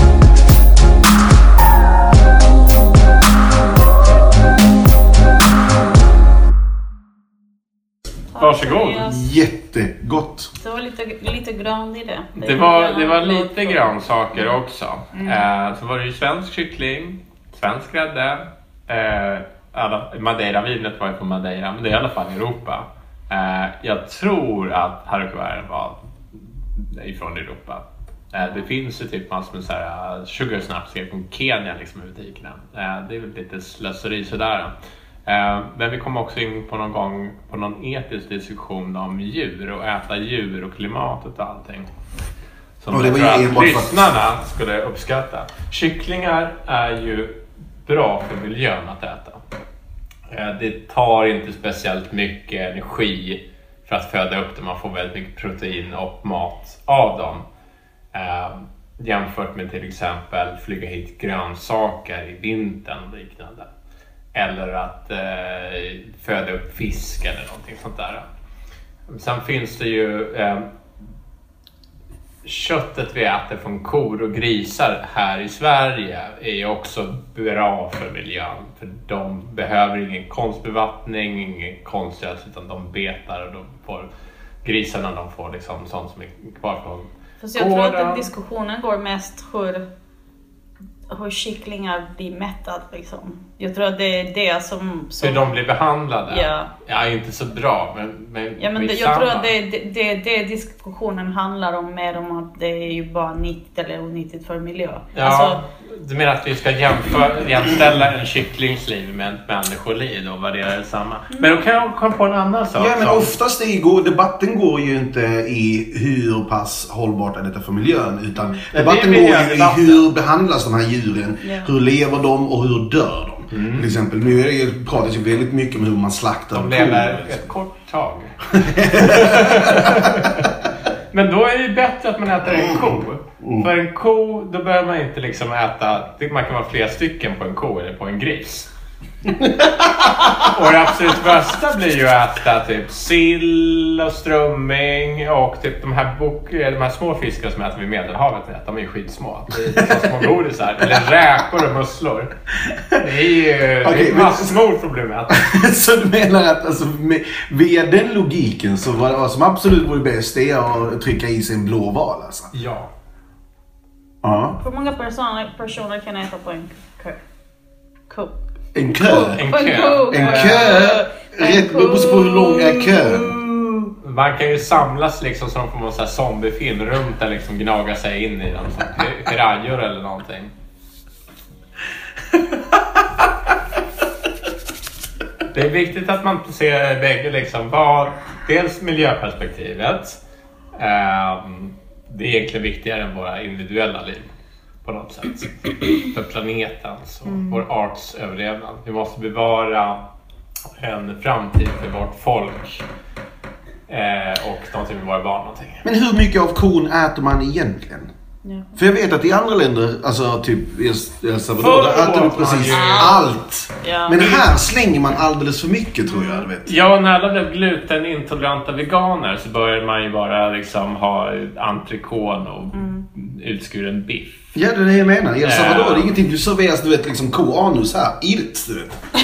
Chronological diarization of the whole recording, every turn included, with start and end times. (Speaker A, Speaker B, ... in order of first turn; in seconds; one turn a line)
Speaker A: 8.3-9.3
Speaker B: 8.4-9.1
Speaker C: 9.0-10.5
Speaker A: 10.6-14.5
Speaker B: 12.4-34.7
Speaker A: 15.1-15.4
Speaker A: 28.4-28.6
Speaker B: 35.3-41.9
Speaker B: 42.8-49.4
Speaker C: 42.9-44.0
Speaker B: 50.3-57.4
Speaker B: 58.1-63.7
Speaker B: 64.3-68.3
Speaker B: 69.1-70.7
Speaker B: 72.4-84.1
Speaker B: 84.6-88.3
Speaker A: 87.4-89.8
Speaker A: 91.1-95.5
Speaker B: 95.2-99.5
Speaker A: 96.3-96.7
Speaker A: 98.6-105.6
Speaker B: 105.1-113.3
Speaker A: 111.3-111.6
Speaker C: 112.8-127.5
Speaker B: 118.7-120.0
Speaker A: 121.4-121.7
Speaker B: 123.5-123.9
Speaker B: 126.5-128.3
Speaker C: 128.5-130.2
Speaker B: 129.0-130.5
Speaker B: 131.1-138.7
Speaker C: 139.4-139.7
Speaker B: 140.3-152.3
Speaker C: 149.7-150.1
Speaker C: 152.7-153.0
Speaker B: 152.9-155.4
Speaker C: 153.8-154.6
Speaker C: 155.3-162.5
Speaker B: 162.5-162.9
Speaker C: 164.2-164.6
Speaker A: 164.6-167.2
Speaker C: 168.7-169.4
Speaker A: 169.0-173.9
Speaker B: 169.3-170.9
Speaker C: 170.1-173.3
Speaker B: 174.0-180.5
Speaker B: 185.5-190.2
Speaker B: 190.7-194.3
Speaker B: 194.8-200.0
Speaker A: 197.3-197.6
Speaker B: 200.8-202.8
Speaker B: 203.9-205.9
Speaker C: 205.8-208.1
Speaker A: 208.4-208.7
Speaker C: 208.8-216.7
Speaker B: 211.6-213.2
Speaker A: 212.7-214.4
Speaker A: 216.1-216.4
Speaker B: 216.6-224.6
Speaker A: 222.7-223.0
Speaker C: 224.6-229.0
Speaker B: 225.4-226.1